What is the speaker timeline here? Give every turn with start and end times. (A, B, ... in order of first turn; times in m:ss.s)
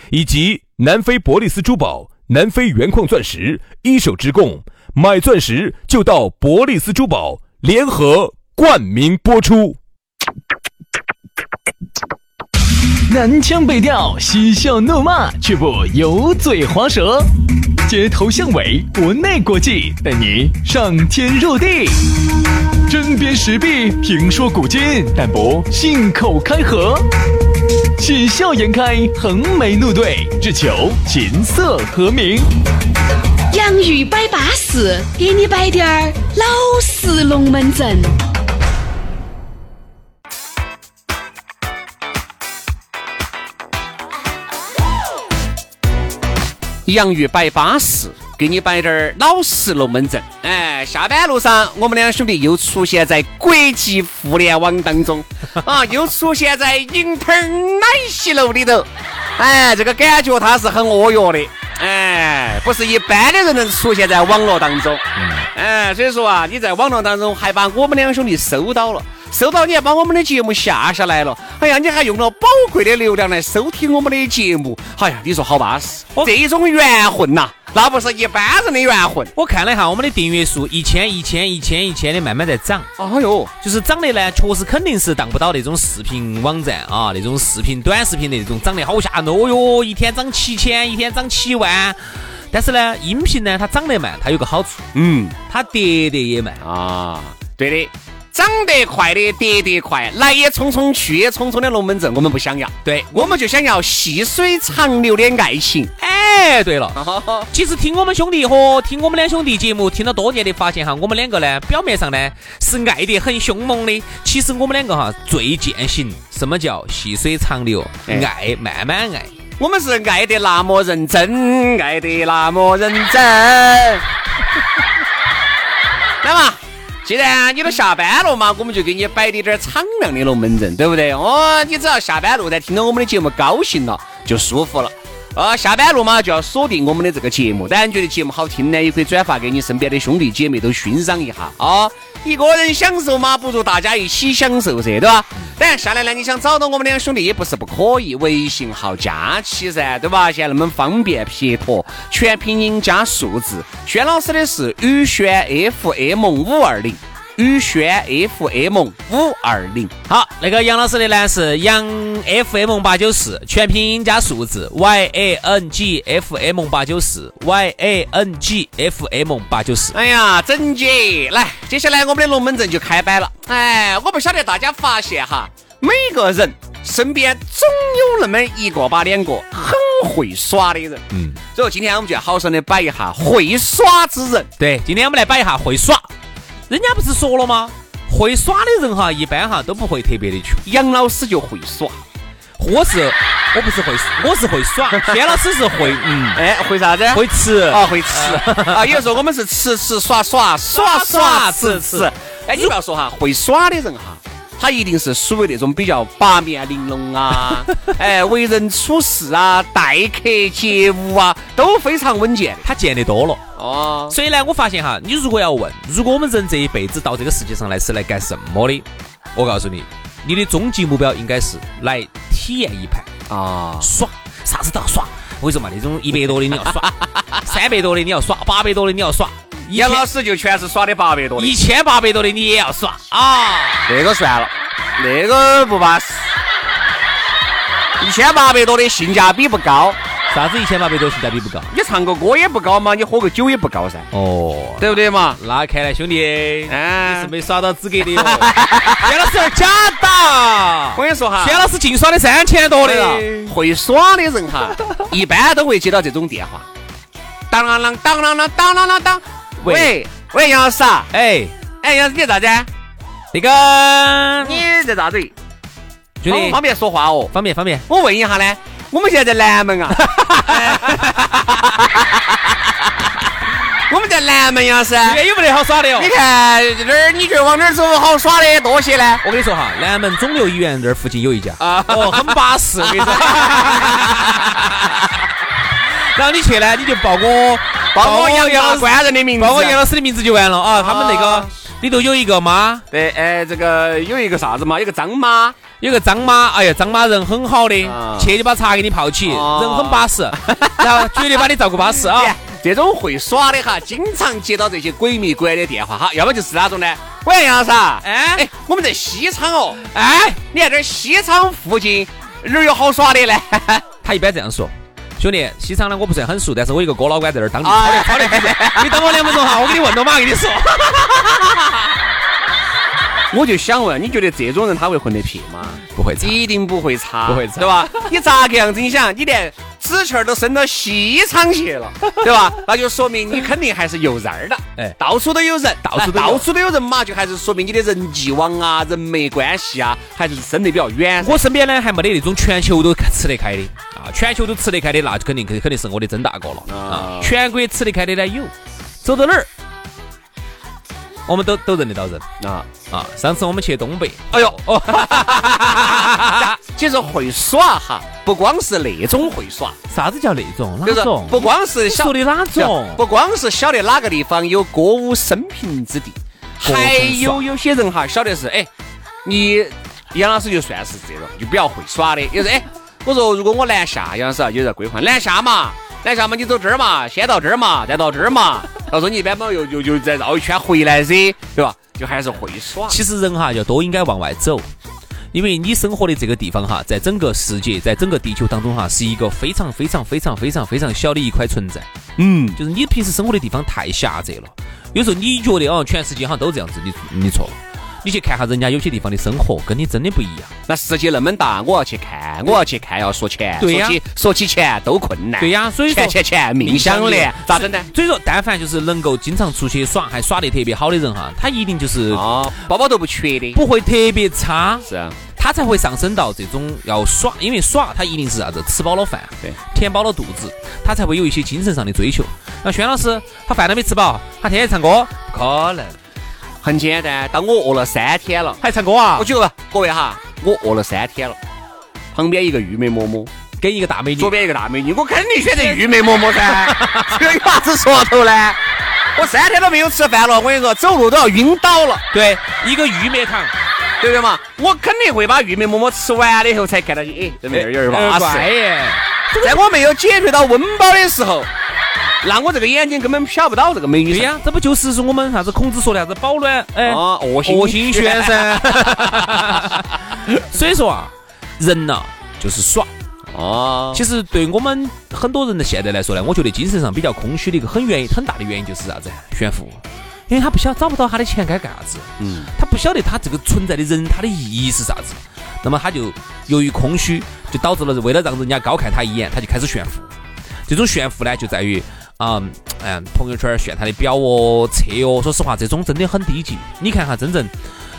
0:00.1-0:08.6 A
0:00.3-0:09.7 B
0:09.5-0:09.8 A
0:13.1-0:17.3 C
0:17.8-0:22.0 C
0:22.9-0:27.1 C
0:28.0-0:32.5 C
0:33.5-0:38.1 D
0:46.8-1:19.3 E
1:05.2-1:05.4 A
1:19.3-1:22.9 A
1:23.0-1:23.5 E
1:23.6-1:34.8 A
1:34.9-1:35.4 E
1:35.5-1:36.6 A
1:36.6-1:45.9 E
1:42.8-1:43.3 A
1:46.0-1:59.3 A
1:46.9-1:47.5 E
1:59.6-2:04.0 E
2:06.2-2:39.9 E
2:40.1-2:50.0 A
2:49.9-3:04.5 E
3:01.1-3:01.4 A
3:04.6-3:06.1 A
3:06.7-3:10.6 A
3:10.6-3:12.0 E
3:12.6-3:16.4 A
3:14.9-3:15.2 E
3:16.3-3:32.6 E
3:17.1-3:19.0 A
3:20.7-3:22.1 A
3:32.6-3:33.4 A
3:33.6-3:34.2 E
3:34.1-3:43.1 A
3:43.3-3:43.9 E
3:43.8-3:50.1 A
3:49.7-3:51.6 E
3:51.4-3:53.9 A
3:53.9-3:56.3 E
3:58.0-4:00.0 E
4:00.3-4:01.7 A
4:01.7-4:04.1 E
4:04.1-4:13.5 A
4:04.8-4:05.4 E
4:06.7-4:07.3 E
4:08.0-4:09.1 E
4:10.9-4:11.7 E
4:12.8-4:16.6 E
4:17.5-4:21.1 E
4:19.6-4:19.9 A
4:21.1-4:21.5 A
4:21.8-4:22.7 E
4:23.3-4:24.6 A
4:24.4-4:25.3 E
4:26.2-4:26.6 A
4:26.3-4:27.3 E
4:27.3-4:27.8 A
4:27.9-4:32.7 E
4:29.9-4:31.2 A
4:33.9-4:35.2 E
4:35.0-4:36.1 A
4:35.9-4:39.2 E
4:39.2-4:45.0 A
4:41.6-4:44.1 E
4:45.9-4:52.8 A
4:47.9-4:49.8 E
4:50.7-4:51.5 E
4:52.9-4:55.6 E
4:55.8-5:02.3 A
4:57.8-4:58.3 E
4:59.2-5:01.4 E
5:02.1-5:13.8 E
5:08.0-5:08.4 A
5:09.9-5:10.4 A
5:14.0-5:21.8 A
5:17.6-5:19.6 E
5:23.3-5:41.4 E
5:25.9-5:26.4 A
5:27.3-5:28.1 A
5:35.8-5:36.4 A
5:41.2-5:49.5 A
5:46.6-5:47.3 E
5:51.3-5:52.2 A
5:52.4-5:52.7 E
5:52.9-5:56.5 A
5:54.3-5:59.8 E
5:59.9-6:03.0 A
6:00.8-6:08.7 E
6:06.6-6:07.5 A
6:09.2-6:23.0 E
6:22.8-6:24.7 A
6:25.3-6:31.9 A
6:32.2-6:32.6 E
6:32.6-6:40.5 A
6:40.7-6:47.9 E
6:43.6-6:44.0 A
6:45.4-6:52.3 A
6:52.1-6:53.6 E
6:53.5-7:06.0 A
6:54.8-6:55.2 E
7:06.6-7:08.6 E
7:08.6-7:09.3 A
7:09.2-7:11.4 E
7:12.1-7:13.3 E
7:13.6-7:14.3 A
7:14.2-7:18.6 E
7:15.5-7:17.4 A
7:19.2-7:22.0 E
7:22.1-7:23.5 A
7:24.0-7:28.5 E
7:27.5-7:29.6 A
7:29.4-7:31.5 E
7:32.2-7:34.4 E
7:34.1-7:42.9 A
7:36.8-7:39.1 E
7:43.3-7:44.0 E
7:43.9-8:00.1 A
7:52.2-7:52.5 E
8:00.7-8:07.5 A